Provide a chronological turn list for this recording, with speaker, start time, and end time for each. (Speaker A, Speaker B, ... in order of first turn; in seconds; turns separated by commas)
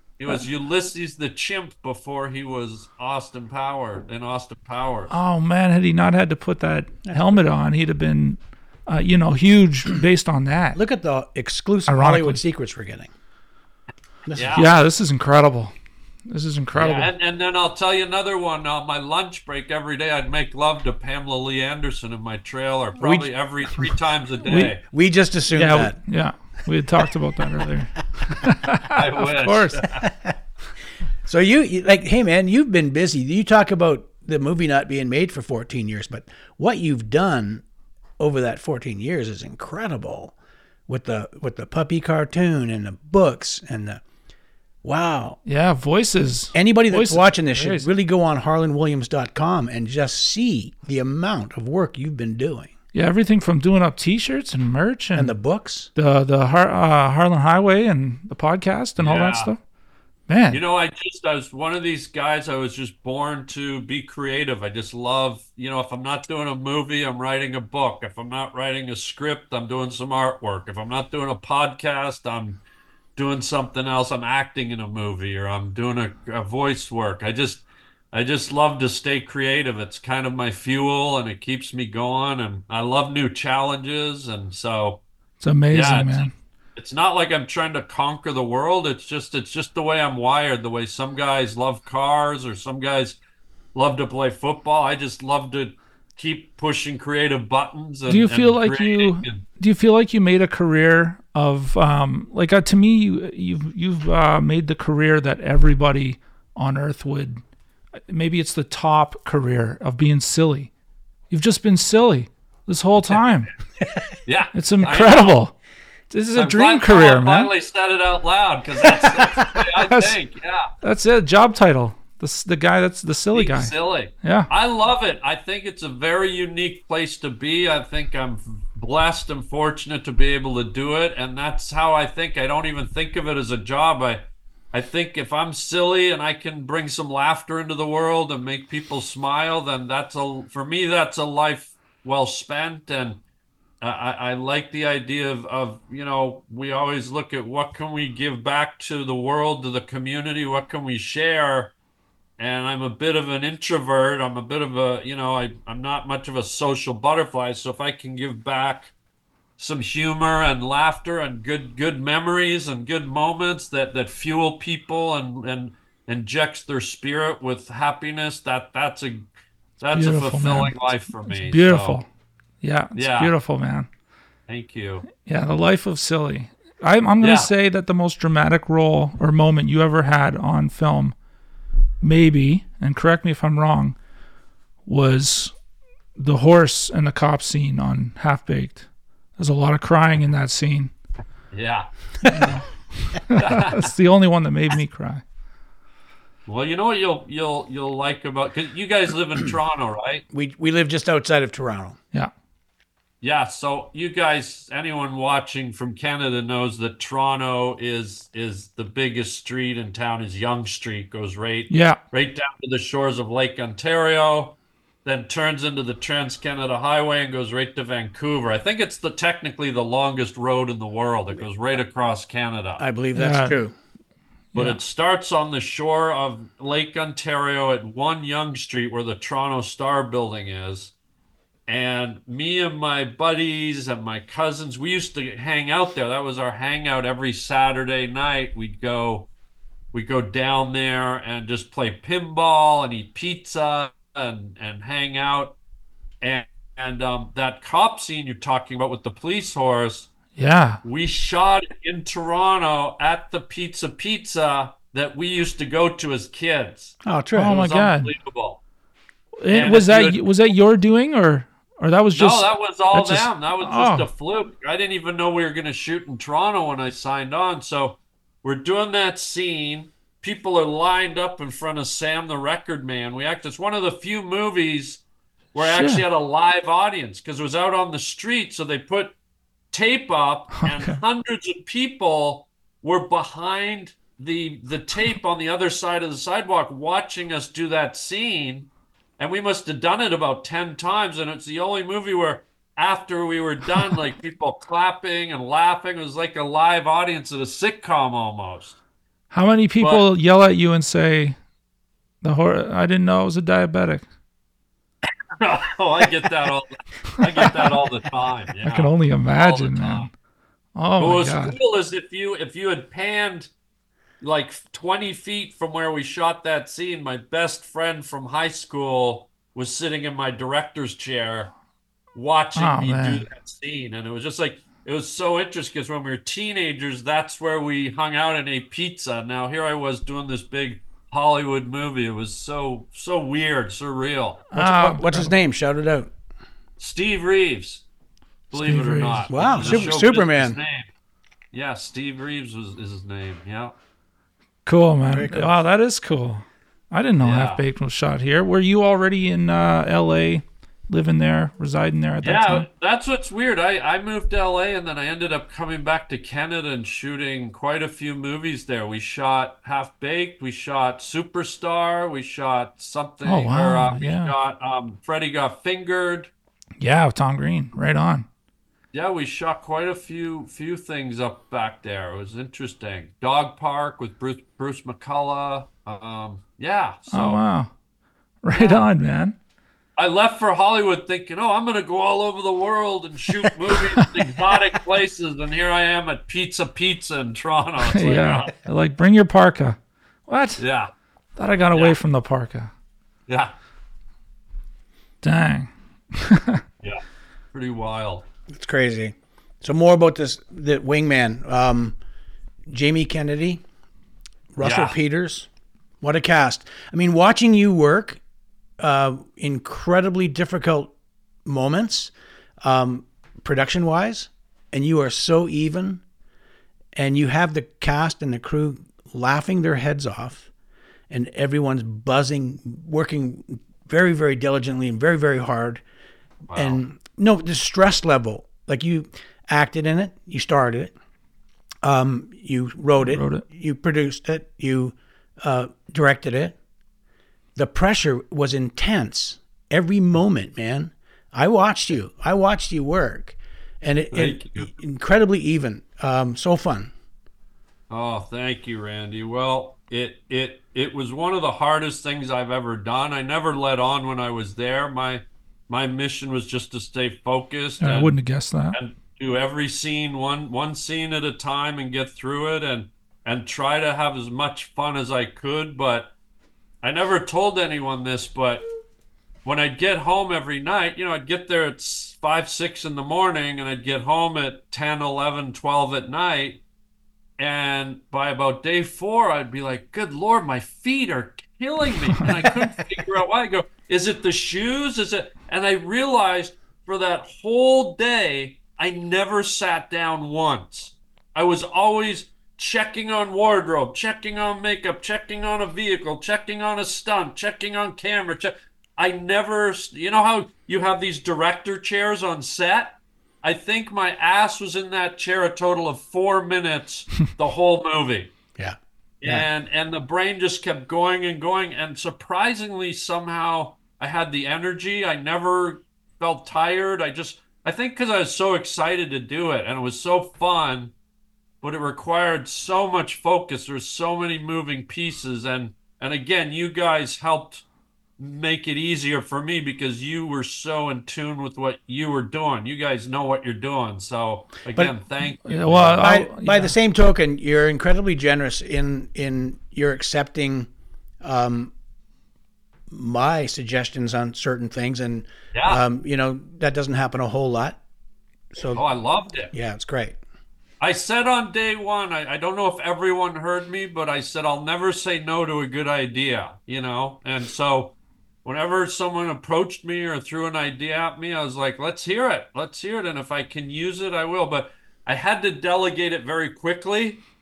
Speaker A: 0.2-5.2, Speaker B: 5.1-10.8, Speaker C: 7.0-7.4, Speaker C: 10.7-13.1, Speaker B: 11.9-12.4, Speaker C: 14.2-14.7, Speaker A: 14.3-14.7, Speaker B: 14.5-15.7, Speaker B: 16.3-17.1, Speaker A: 16.8-24.8, Speaker C: 23.0-23.3, Speaker B: 24.4-24.7, Speaker C: 24.9-26.0, Speaker B: 25.5-29.9, Speaker C: 27.0-27.6, Speaker A: 28.9-30.0, Speaker C: 30.0-30.4, Speaker C: 31.2-37.6, Speaker C: 38.2-40.4, Speaker C: 40.9-44.0, Speaker C: 44.8-45.4, Speaker B: 45.5-47.9, Speaker C: 46.5-52.7, Speaker B: 52.9-55.3, Speaker C: 55.1-55.9, Speaker B: 55.9-59.6, Speaker A: 59.0-59.5, Speaker B: 60.3-60.6, Speaker A: 60.5-72.6, Speaker A: 73.2-85.0, Speaker B: 85.4-86.3, Speaker A: 85.7-93.2, Speaker A: 93.7-99.4, Speaker B: 98.1-107.4, Speaker B: 108.1-110.7, Speaker B: 111.3-113.5, Speaker A: 114.2-115.4, Speaker B: 114.5-115.5, Speaker B: 116.1-117.5, Speaker A: 116.3-120.7, Speaker B: 119.8-120.1, Speaker B: 120.8-124.5, Speaker A: 123.3-143.2, Speaker A: 143.8-151.7, Speaker A: 152.4-158.9, Speaker A: 159.6-172.0, Speaker B: 169.9-172.1, Speaker B: 172.6-173.9, Speaker A: 172.9-173.3, Speaker A: 174.5-175.1, Speaker B: 175.2-181.1, Speaker A: 177.2-177.5, Speaker B: 182.0-183.9, Speaker B: 184.9-185.5, Speaker B: 186.2-188.8, Speaker B: 189.4-190.9, Speaker A: 191.5-191.9, Speaker B: 192.2-195.2, Speaker A: 193.3-193.9, Speaker A: 196.4-200.2, Speaker C: 200.3-202.0, Speaker A: 203.2-222.8, Speaker B: 211.7-212.0, Speaker C: 222.8-223.7, Speaker B: 223.1-223.6, Speaker B: 224.5-224.8, Speaker A: 224.6-230.9, Speaker A: 231.7-239.3, Speaker A: 239.9-245.6, Speaker A: 246.2-250.1, Speaker B: 250.3-250.8, Speaker A: 250.8-258.6, Speaker C: 257.0-257.6, Speaker B: 257.4-258.1, Speaker B: 259.4-264.1, Speaker A: 259.5-260.2, Speaker A: 262.1-275.0, Speaker A: 275.5-279.1, Speaker B: 275.6-276.0, Speaker A: 279.7-298.8, Speaker B: 280.6-281.0, Speaker B: 299.3-301.4, Speaker A: 299.8-300.1, Speaker B: 302.2-304.0, Speaker A: 305.4-310.1, Speaker B: 307.2-307.6, Speaker B: 308.6-310.1, Speaker B: 310.7-311.6, Speaker A: 311.0-313.5, Speaker A: 314.2-321.5, Speaker A: 322.1-334.5, Speaker B: 322.6-323.2, Speaker B: 334.5-335.3, Speaker C: 334.6-336.1, Speaker A: 336.8-337.9, Speaker A: 338.5-340.9, Speaker B: 338.5-339.9, Speaker C: 339.3-340.6, Speaker A: 341.5-343.8, Speaker B: 344.6-352.6, Speaker C: 345.1-345.6, Speaker A: 347.2-347.6, Speaker A: 352.2-366.3, Speaker B: 363.2-364.3, Speaker B: 366.8-368.3, Speaker A: 368.9-377.4, Speaker B: 377.1-377.7, Speaker B: 378.4-379.4, Speaker A: 378.5-378.9, Speaker A: 380.0-388.5, Speaker B: 387.8-390.6, Speaker A: 390.6-390.9, Speaker B: 391.4-392.7, Speaker A: 391.7-392.0, Speaker A: 393.3-393.6, Speaker B: 395.2-396.6, Speaker A: 397.5-398.2, Speaker C: 398.5-402.0, Speaker C: 402.7-403.6, Speaker C: 404.5-405.5, Speaker A: 404.6-404.9, Speaker C: 406.0-408.2, Speaker C: 408.8-410.9, Speaker C: 411.4-412.1, Speaker C: 412.6-416.0, Speaker C: 416.9-420.5, Speaker C: 421.1-425.8, Speaker A: 426.5-426.8, Speaker C: 426.6-430.9, Speaker C: 431.8-436.6, Speaker B: 433.0-433.4, Speaker C: 437.6-446.9, Speaker A: 444.1-444.7, Speaker A: 447.9-458.1, Speaker B: 457.8-458.8, Speaker A: 458.7-466.1, Speaker A: 466.8-468.6, Speaker A: 469.4-476.6, Speaker A: 477.4-508.3, Speaker C: 508.6-509.4, Speaker A: 509.2-520.9, Speaker A: 521.6-527.6, Speaker A: 528.2-536.1, Speaker B: 535.4-536.7, Speaker C: 535.9-540.7, Speaker C: 541.2-541.7, Speaker C: 542.9-547.8, Speaker A: 545.5-545.8, Speaker C: 548.5-548.8, Speaker A: 548.7-549.5, Speaker C: 549.5-550.2, Speaker A: 550.8-567.2